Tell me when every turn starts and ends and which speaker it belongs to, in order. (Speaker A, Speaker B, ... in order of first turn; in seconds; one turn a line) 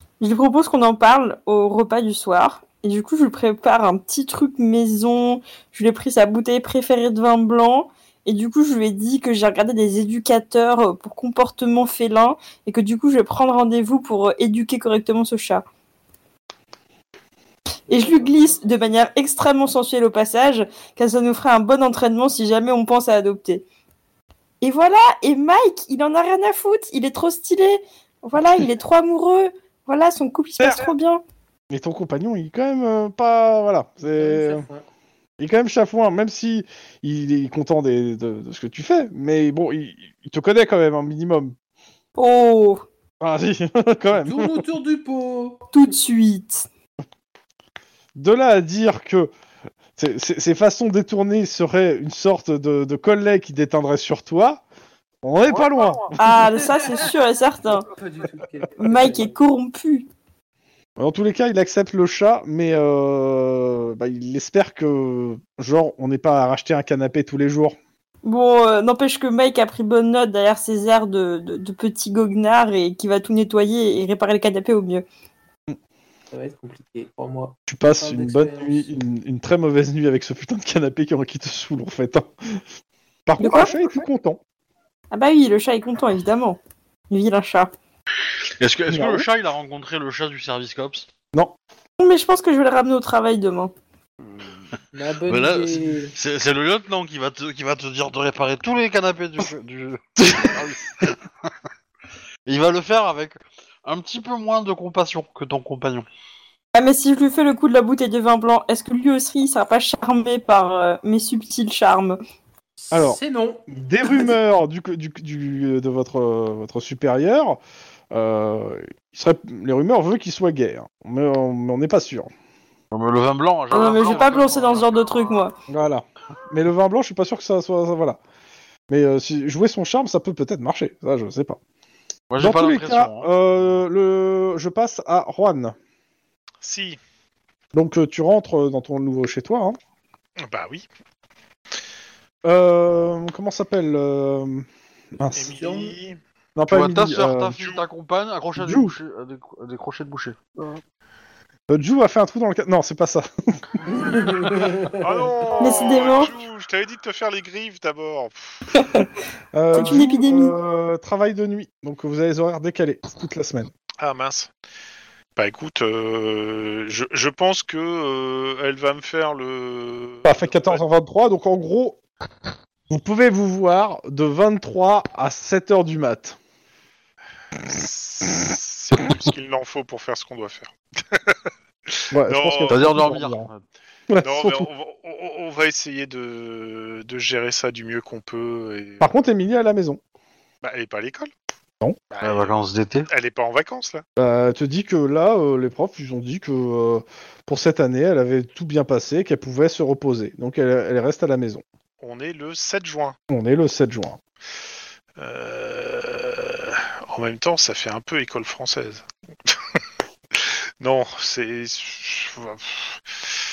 Speaker A: 0.2-15.6
Speaker B: 17.9-18.6
Speaker A: 17.9-23.6
Speaker A: 24.6-31.2
Speaker C: 30.6-30.9
Speaker C: 31.7-34.6
Speaker B: 34.0-34.8
Speaker C: 35.4-41.5
Speaker A: 42.2-42.8
Speaker C: 43.2-44.7
Speaker B: 44.1-45.6
Speaker A: 45.7-46.7
Speaker C: 48.1-49.3
Speaker C: 50.0-54.6
Speaker C: 55.2-56.4
Speaker D: 55.7-56.0
Speaker A: 56.2-57.9
Speaker B: 56.3-57.1
Speaker B: 57.9-59.3
Speaker A: 58.8-60.0
Speaker C: 61.0-67.8
Speaker A: 68.2-75.0
Speaker B: 76.3-79.0
Speaker C: 77.7-82.3
Speaker C: 83.2-84.4
Speaker A: 83.4-83.7
Speaker A: 85.1-86.6
Speaker A: 87.1-87.7
Speaker D: 88.6-91.1
Speaker C: 88.9-89.3
Speaker A: 92.0-93.7
Speaker B: 94.9-96.1
Speaker D: 95.2-101.2
Speaker C: 100.2-101.0
Speaker D: 102.5-106.0
Speaker A: 106.7-112.2
Speaker B: 112.8-114.3
Speaker C: 112.9-117.6
Speaker C: 118.1-122.3
Speaker D: 122.9-125.0
Speaker A: 123.7-125.5
Speaker B: 123.9-124.2
Speaker C: 125.7-128.2
Speaker C: 128.9-131.6
Speaker D: 132.3-133.3
Speaker C: 132.4-135.7
Speaker E: 136.6-137.0
Speaker C: 137.7-139.8
Speaker E: 140.4-140.8
Speaker C: 142.4-145.6
Speaker E: 145.3-146.2
Speaker B: 145.5-145.9
Speaker C: 146.6-147.6
Speaker D: 146.7-150.8
Speaker E: 147.6-147.8
Speaker C: 148.6-148.9
Speaker C: 151.7-153.8
Speaker B: 153.9-155.2
Speaker E: 155.0-158.6
Speaker A: 155.6-156.4
Speaker A: 158.8-159.1
Speaker C: 159.5-163.7
Speaker A: 159.7-160.5
Speaker E: 164.0-164.5
Speaker E: 165.4-170.8
Speaker C: 170.2-172.0
Speaker C: 172.9-176.4
Speaker E: 177.7-181.4
Speaker E: 181.9-182.8
Speaker C: 182.1-183.5
Speaker D: 182.7-183.6
Speaker C: 184.1-184.7
Speaker E: 184.2-189.1
Speaker C: 189.0-190.0
Speaker E: 190.6-191.3
Speaker E: 192.1-192.5
Speaker D: 192.2-193.1
Speaker E: 193.1-194.0
Speaker C: 194.2-201.6
Speaker E: 202.0-203.2
Speaker C: 203.3-204.2
Speaker E: 205.2-209.5
Speaker E: 210.4-213.3